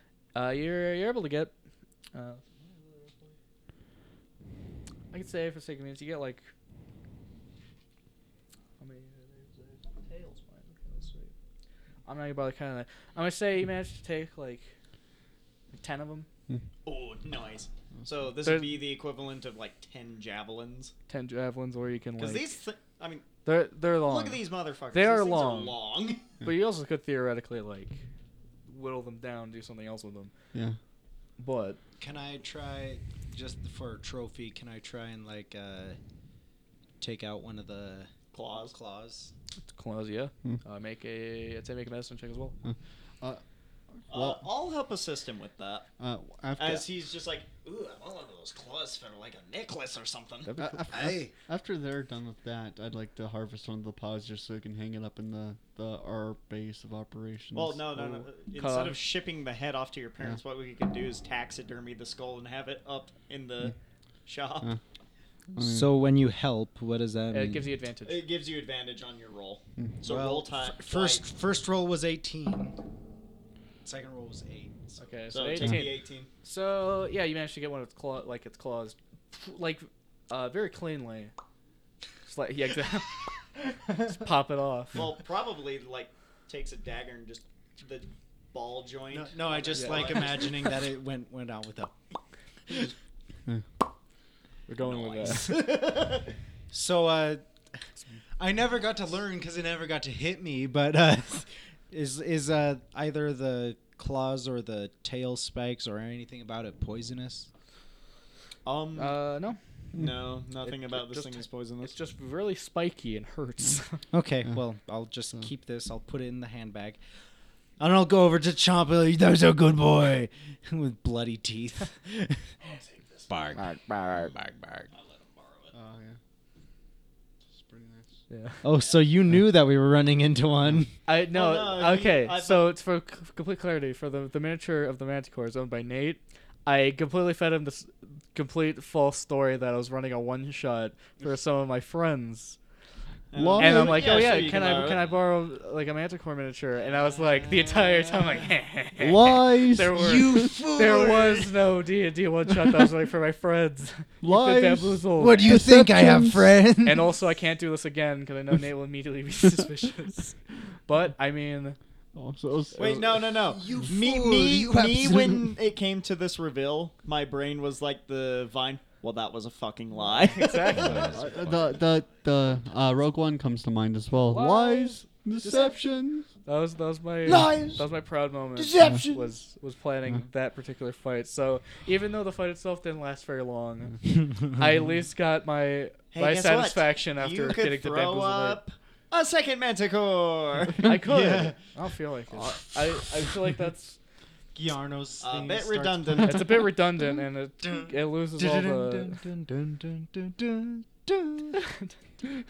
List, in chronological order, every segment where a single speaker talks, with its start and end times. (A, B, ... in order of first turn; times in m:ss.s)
0:00.3-0:01.5 A
0:02.1-0:03.3 A
0:05.1-0:06.5 A
0:08.8-0:11.3 A
0:12.0-0:14.7 A
0:15.7-0:16.3 A
0:16.8-0:20.9 B
0:18.4-0:18.7 A
0:21.1-0:22.5 A
0:22.2-0:23.2 B
0:23.4-0:25.8 A
0:24.0-0:26.2 B
0:26.4-0:28.0 A
0:28.6-0:30.3 A
0:30.5-0:30.8 C
0:31.4-0:31.8 A
0:32.0-0:36.0 D
0:37.0-0:39.3 D
0:38.3-0:38.7 B
0:39.6-0:42.6 A
0:42.6-0:43.4 C
0:44.0-0:44.4 C
0:44.1-0:45.9 B
0:46.0-0:46.9 C
0:46.6-0:50.5 B
0:50.4-0:50.9 A
0:50.6-0:58.3 C
0:50.9-0:51.3 D
0:57.5-1:04.7 B
0:58.6-0:59.0 A
1:05.5-1:05.9 C
1:05.6-1:07.7 D
1:07.3-1:08.2 A
1:08.0-1:11.2 B
1:10.0-1:12.8 D
1:13.8-1:15.1 D
1:15.0-1:21.3 A
1:15.3-1:16.3 B
1:15.6-1:15.9 C
1:22.2-1:23.2 A
1:24.0-1:25.0 A
1:24.9-1:30.7 B
1:29.1-1:31.9 D
1:29.7-1:30.3 A
1:34.7-1:35.6 A
1:34.9-1:36.2 B
1:35.2-1:36.1 D
1:36.7-1:37.5 D
1:38.4-1:47.5 D
1:48.6-1:49.2 B
1:49.0-1:49.6 A
1:49.9-1:52.0 B
1:50.6-1:54.0 A
1:54.1-1:57.0 D
1:57.8-2:02.5 D
2:02.6-2:03.5 B
2:03.3-2:04.9 D
2:03.5-2:04.4 A
2:04.9-2:05.7 B
2:05.7-2:06.2 C
2:07.5-2:08.2 C
2:08.3-2:08.6 A
2:08.6-2:10.9 D
2:11.0-2:22.6 A
2:11.3-2:12.7 B
2:23.3-2:25.1 B
2:23.3-2:24.2 C
2:23.6-2:35.6 A
2:29.0-2:30.5 C
2:29.9-2:31.6 D
2:34.2-2:36.6 C
2:35.2-2:37.1 D
2:36.8-2:41.8 A
2:42.1-2:43.4 C
2:42.8-2:51.2 B
2:43.5-2:45.5 D
2:50.0-2:51.5 A
2:50.8-2:51.2 D
2:50.9-2:56.3 C
2:54.3-2:55.9 A
2:56.4-3:08.6 A
2:57.2-2:57.8 D
2:58.6-2:59.3 D
3:06.1-3:10.9 B
3:10.8-3:14.0 A
3:11.0-3:11.6 D
3:14.5-3:16.4 D
3:15.2-3:16.5 B
3:16.2-3:19.2 A
3:17.6-3:21.6 D
3:21.6-3:21.9 A